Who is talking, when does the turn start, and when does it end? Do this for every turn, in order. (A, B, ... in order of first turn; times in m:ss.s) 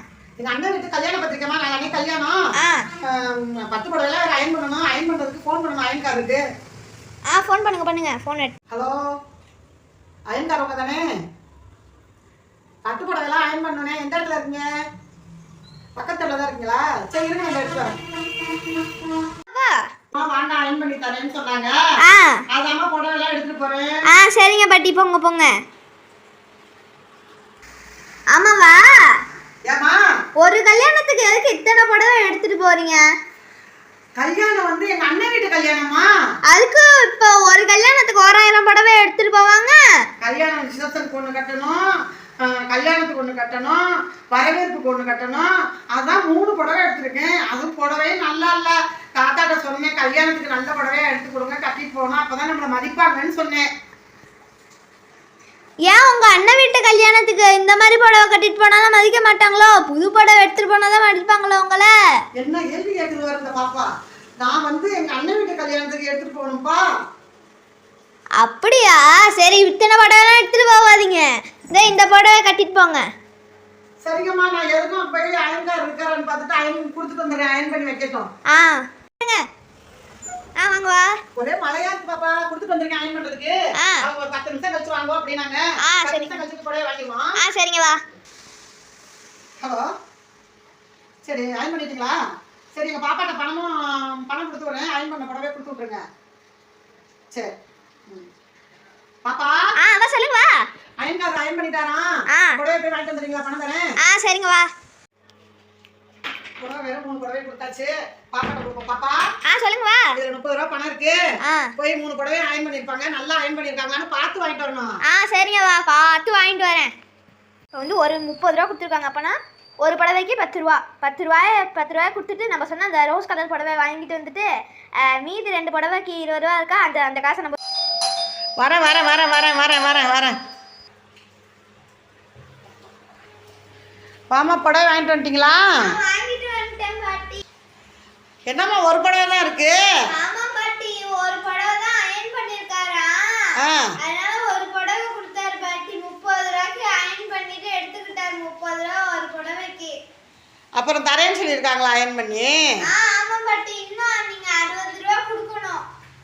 0:00.4-0:02.4 A
0:02.6-0:02.9 B
0:03.0-0:06.4 A
0:07.3-0:08.6 B
0:08.7-0:09.0 A
0:10.3-0:11.0 A
0:12.9-0:14.7 A
0:16.0-0:17.9 A
0:19.5-0:19.8 B
0:20.1-0:21.8 A
0:22.0-0:22.4 B
0:22.5-0:23.9 A
0:24.1-0:25.5 B
0:28.3-0:28.9 B
0:29.7-0:30.0 A
0:30.4-0:33.0 B
0:34.2-0:36.1 A
0:36.5-0:39.8 B
0:40.2-0:41.8 A
0:42.4-0:43.8 A
0:44.3-0:53.6 A
0:55.9-1:01.9 B
1:02.4-1:03.9 A
1:04.4-1:06.8 A
1:08.4-1:13.0 B
1:14.0-1:18.3 A
1:18.5-1:19.5 B
1:20.6-1:21.2 B
1:21.4-1:27.3 A
1:23.8-1:24.1 B
1:25.8-1:26.4 B
1:27.4-1:28.0 B
1:31.2-1:32.2 A
1:32.7-1:36.0 A
1:39.2-1:39.7 A
1:39.8-1:40.6 B
1:41.0-1:42.0 A
1:42.3-1:42.6 B
1:42.6-1:43.8 A
1:44.0-1:44.7 B
1:46.6-1:49.2 A
1:49.5-1:50.2 B
1:50.2-1:51.2 A
1:51.4-1:51.7 B
1:51.8-1:54.9 A
1:55.1-1:56.9 B
1:57.8-2:04.5 B
2:05.0-2:07.6 B
2:08.6-2:10.4 A
2:14.3-2:15.7 A
2:15.8-2:17.4 B
2:18.5-2:19.8 A
2:20.1-2:30.0 B
2:23.6-2:23.9 A
2:30.8-2:32.6 A
2:32.8-2:35.8 B